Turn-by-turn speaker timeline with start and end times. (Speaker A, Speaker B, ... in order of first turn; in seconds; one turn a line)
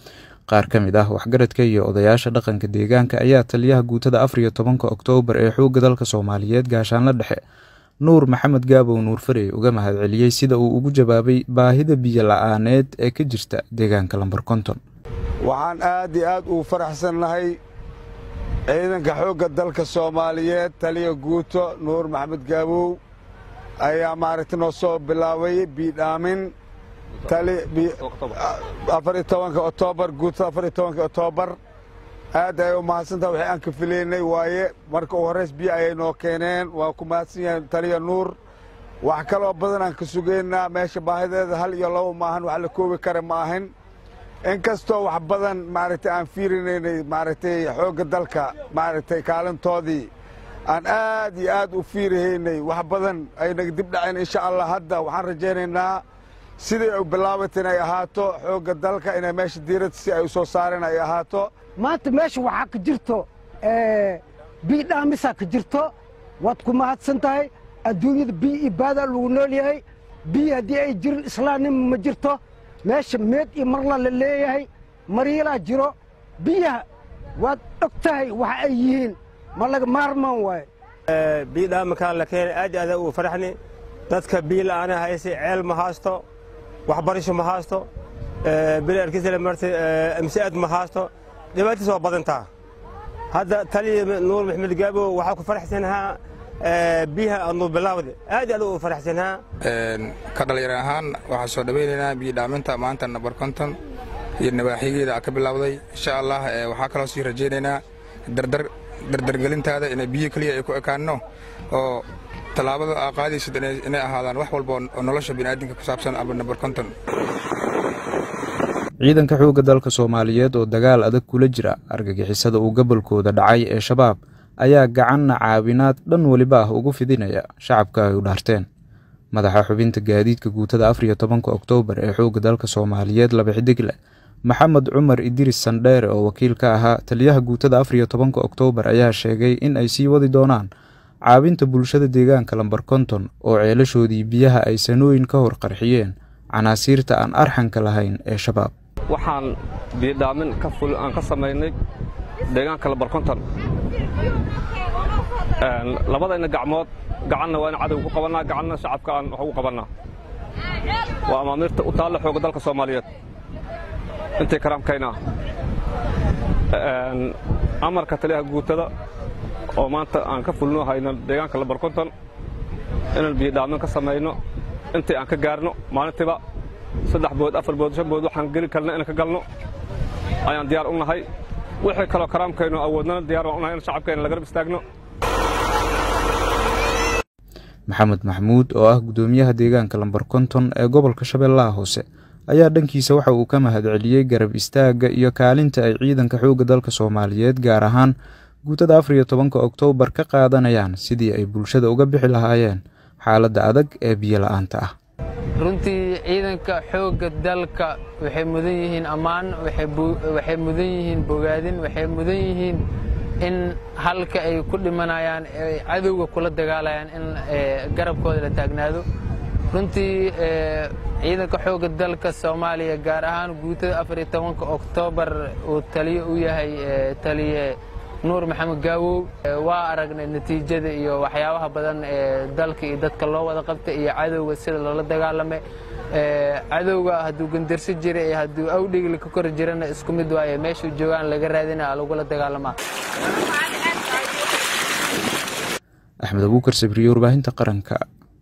Speaker A: 0.5-7.4
Speaker A: 8.0-14.8
Speaker B: 15.4-17.6
Speaker B: 18.7-23.0
Speaker B: 23.8-26.5
Speaker B: 27.2-31.6
Speaker B: 32.3-38.4
Speaker B: 39.0-43.7
Speaker B: 44.4-50.1
Speaker B: 50.7-56.0
Speaker B: 56.6-61.5
Speaker C: 61.8-76.8
Speaker C: 77.4-80.7
Speaker D: 81.1-83.5
Speaker D: 84.1-86.2
Speaker D: 86.9-87.9
Speaker D: 88.5-92.5
Speaker D: 93.3-99.4
Speaker E: 99.6-103.8
Speaker E: 104.4-111.2
Speaker E: 111.7-112.0
Speaker E: 112.5-116.9
Speaker A: 119.0-128.7
Speaker A: 129.3-133.9
Speaker A: 134.5-140.7
Speaker A: 141.3-148.7
Speaker F: 149.1-151.7
Speaker F: 152.5-153.4
Speaker F: 155.6-159.9
Speaker F: 161.3-163.1
Speaker F: 164.4-165.2
Speaker F: 166.7-168.9
Speaker F: 169.8-172.1
Speaker F: 173.2-174.4
Speaker F: 174.9-176.4
Speaker F: 177.1-179.4
Speaker F: 180.5-181.2
Speaker F: 181.8-184.8
Speaker A: 187.9-204.9
Speaker G: 205.6-212.8
Speaker G: 213.4-219.1
Speaker G: 219.7-235.6
Speaker G: 236.1-242.8
Speaker A: 246.2-248.0